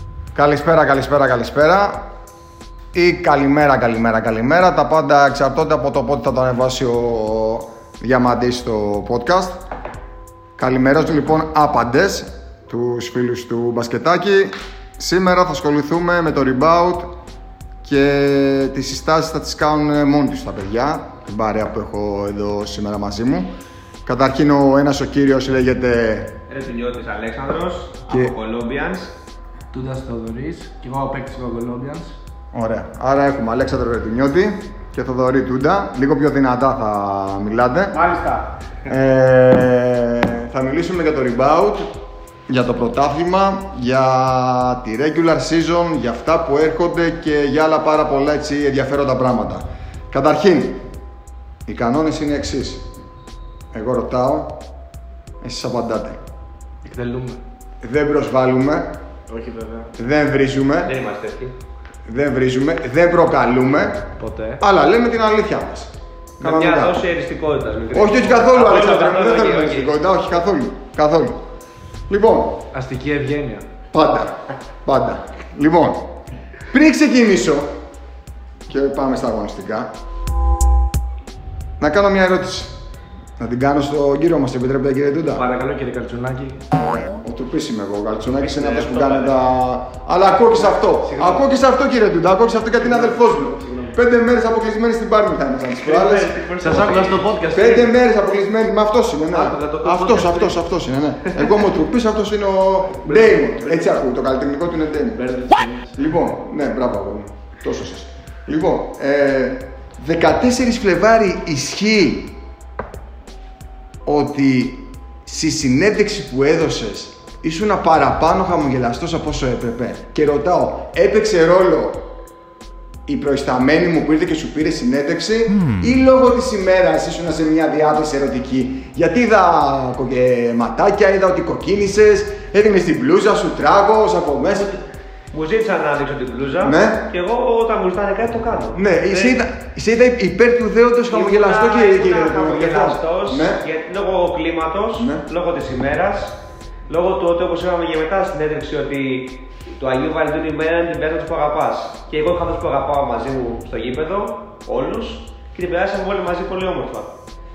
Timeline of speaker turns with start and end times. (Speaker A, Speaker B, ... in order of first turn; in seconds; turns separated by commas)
Speaker A: 0.3-2.1, Speaker A: 2.9-9.6, Speaker A: 10.6-17.1, Speaker A: 17.8-23.5, Speaker A: 24.1-26.3, Speaker B: 26.5-29.1, Speaker A: 28.1-28.3, Speaker C: 29.7-32.1, Speaker A: 32.5-38.0, Speaker B: 37.9-38.5, Speaker A: 38.9-41.9, Speaker A: 42.5-50.8, Speaker A: 51.6-52.9, Speaker A: 53.7-54.6, Speaker A: 55.4-56.2, Speaker C: 56.8-57.4, Speaker A: 57.8-58.9, Speaker C: 59.3-59.9, Speaker A: 60.0-60.9, Speaker B: 60.9-61.5, Speaker A: 62.0-67.0, Speaker C: 64.2-64.6, Speaker B: 66.4-69.9, Speaker A: 67.9-71.4, Speaker A: 72.1-72.6, Speaker C: 72.7-73.7, Speaker A: 73.9-76.1, Speaker A: 76.7-77.7, Speaker A: 78.7-79.9, Speaker A: 81.8-82.8, Speaker A: 83.4-85.4, Speaker C: 85.3-86.7, Speaker A: 87.0-96.4, Speaker B: 88.4-89.4, Speaker C: 90.6-91.5, Speaker C: 92.8-94.0, Speaker B: 95.8-97.2, Speaker C: 96.6-97.9, Speaker A: 97.5-105.2, Speaker B: 99.3-100.5, Speaker C: 103.0-104.0, Speaker C: 105.1-106.0, Speaker A: 106.0-112.3, Speaker A: 114.0-122.0, Speaker A: 123.1-134.8, Speaker B: 135.3-139.4, Speaker A: 136.6-137.1, Speaker A: 138.7-143.6, Speaker B: 141.1-146.4, Speaker A: 145.0-145.2, Speaker B: 146.9-157.1